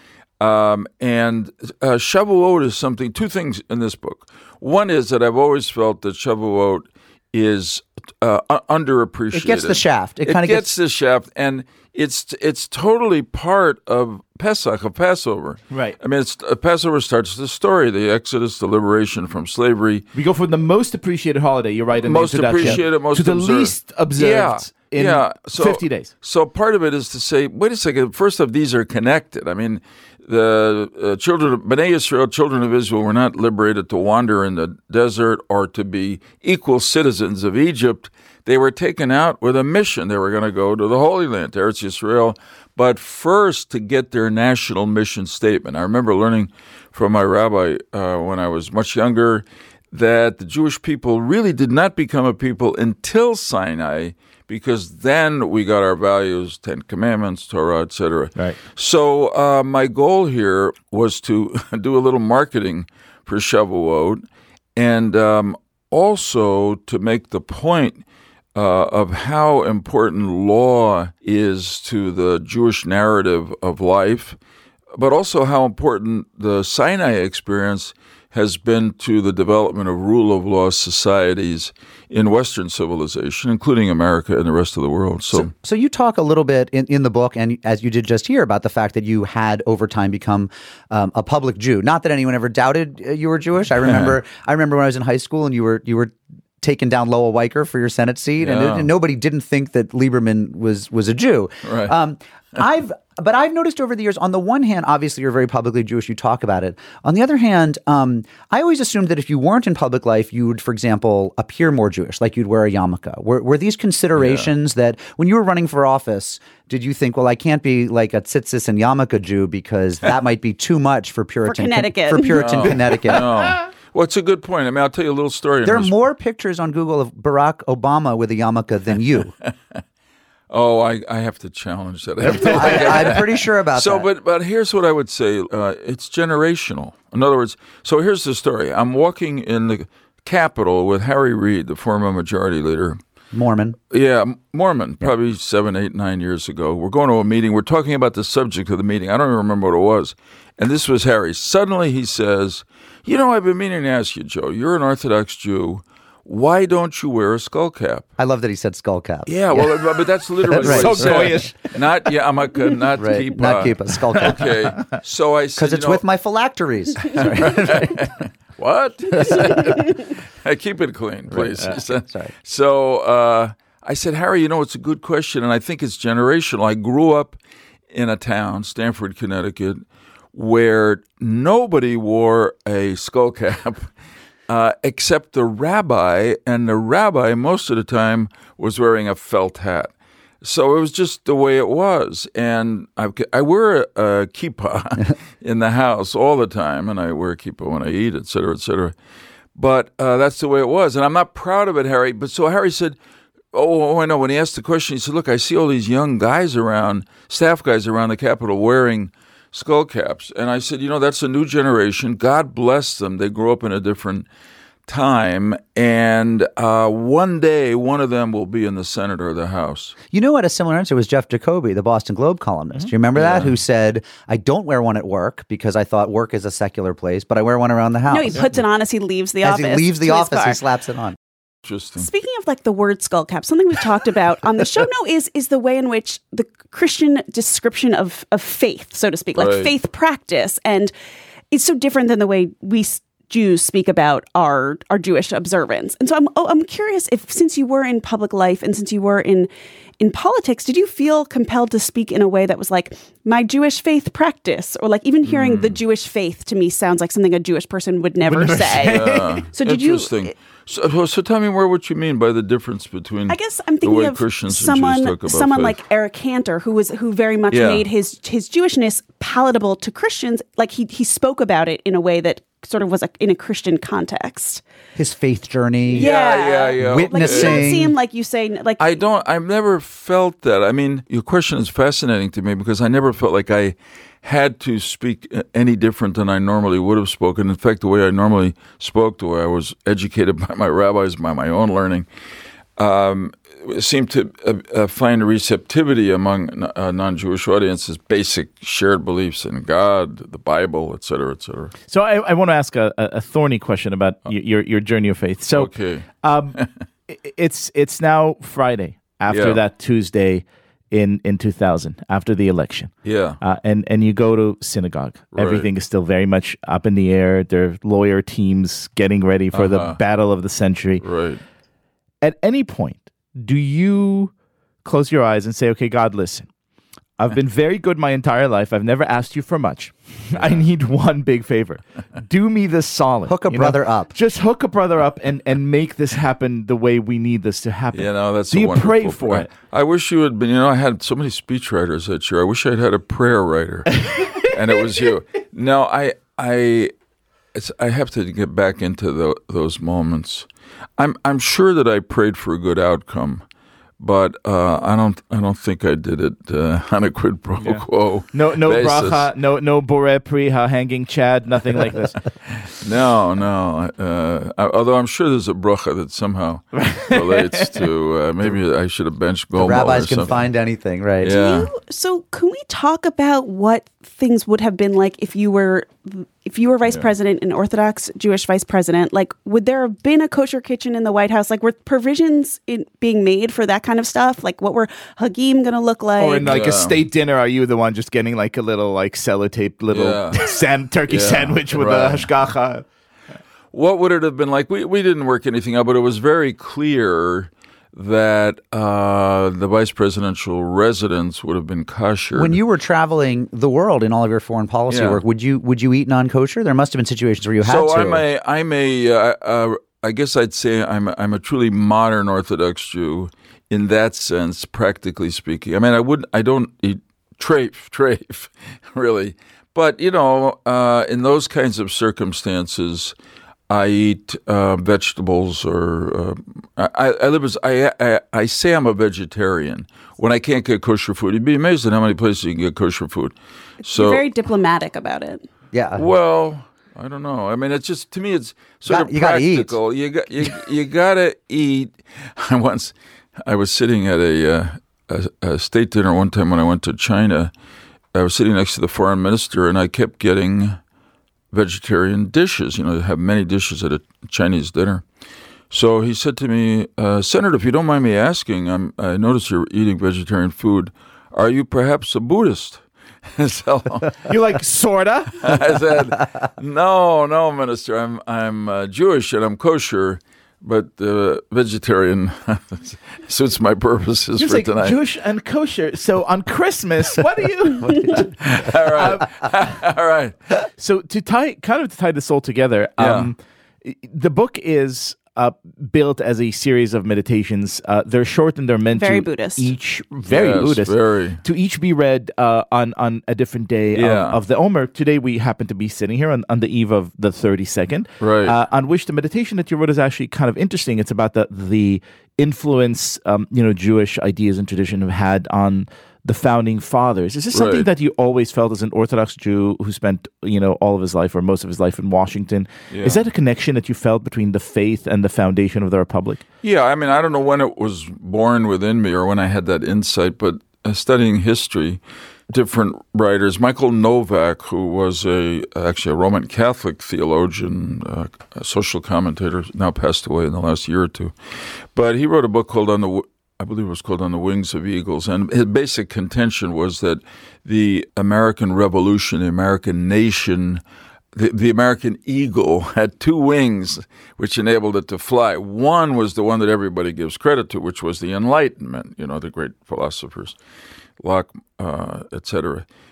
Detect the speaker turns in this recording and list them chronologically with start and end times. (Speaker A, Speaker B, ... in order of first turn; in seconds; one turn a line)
Speaker A: 0.4-20.1
Speaker B: 9.3-10.7
Speaker C: 15.7-16.0
Speaker C: 20.1-26.1
Speaker A: 22.0-68.0
Speaker A: 68.5-74.4
Speaker A: 74.9-85.5
Speaker B: 85.3-123.2
Speaker A: 93.8-94.2
Speaker A: 98.4-98.9
Speaker A: 101.6-101.9
Speaker A: 114.2-114.5
Speaker D: 121.5-122.4
Speaker A: 122.3-125.9
Speaker B: 125.6-129.3
Speaker A: 129.4-129.8
Speaker A: 130.5-143.0
Speaker C: 132.3-133.1
Speaker B: 132.4-134.1
Speaker B: 143.3-143.8
Speaker A: 143.9-158.1
Speaker B: 158.2-159.7
Speaker A: 159.3-166.0
Speaker C: 160.5-161.8
Speaker B: 160.6-161.2
Speaker B: 163.0-164.5
Speaker B: 165.6-167.9
Speaker A: 167.0-177.4
Speaker B: 171.3-172.3
Speaker A: 177.9-183.9
Speaker A: 184.5-198.9
Speaker A: 199.5-203.0
Speaker A: 203.5-214.3
Speaker A: 214.9-219.9
Speaker B: 220.1-228.3
Speaker A: 223.1-223.5
Speaker D: 228.1-230.6
Speaker B: 229.4-231.1
Speaker A: 231.6-232.1
Speaker D: 232.0-240.9
Speaker A: 239.3-239.7
Speaker D: 241.5-260.3
Speaker A: 255.2-255.8
Speaker C: 258.2-259.5
Speaker A: 258.7-265.8
Speaker D: 263.3-274.6
Speaker A: 267.5-267.9
Speaker B: 274.9-276.1
Speaker A: 275.9-277.8
Speaker D: 275.9-279.0
Speaker B: 276.8-277.9
Speaker A: 278.8-292.1
Speaker A: 292.8-301.7
Speaker C: 301.9-321.0
Speaker A: 305.5-306.7
Speaker A: 309.3-309.6
Speaker A: 313.0-313.4
Speaker A: 315.3-315.7
Speaker A: 319.5-320.0
Speaker A: 321.0-321.4
Speaker C: 322.2-324.3
Speaker C: 324.8-326.5
Speaker C: 327.2-339.5
Speaker A: 330.3-330.6
Speaker B: 333.3-334.1
Speaker A: 337.9-346.9
Speaker C: 344.0-344.6
Speaker A: 347.5-353.4
Speaker A: 354.0-359.3
Speaker C: 357.6-362.2
Speaker A: 362.6-370.5
Speaker C: 366.7-367.9
Speaker B: 369.5-371.3
Speaker A: 371.2-371.7
Speaker D: 371.3-386.6
Speaker C: 386.2-392.9
Speaker A: 386.4-387.0
Speaker A: 389.9-390.4
Speaker A: 391.1-392.3
Speaker A: 393.7-402.6
Speaker B: 402.3-408.2
Speaker A: 404.9-405.2
Speaker A: 407.6-423.1
Speaker A: 423.7-434.3
Speaker D: 433.8-435.4
Speaker B: 435.7-436.0
Speaker A: 435.9-442.9
Speaker B: 438.9-439.7
Speaker A: 443.4-447.5
Speaker A: 448.1-450.8
Speaker A: 451.5-455.0
Speaker A: 455.7-462.8
Speaker A: 463.3-464.3
Speaker C: 464.3-465.6
Speaker A: 465.4-475.0
Speaker C: 474.4-479.5
Speaker A: 478.4-480.4
Speaker C: 480.8-516.4
Speaker A: 483.0-483.3
Speaker D: 488.9-489.7
Speaker A: 490.3-491.4
Speaker A: 493.9-494.4
Speaker A: 498.2-498.6
Speaker A: 507.5-507.9
Speaker A: 512.9-513.2
Speaker A: 516.6-531.3
Speaker A: 531.9-540.8
Speaker A: 541.3-550.5
Speaker A: 551.2-552.9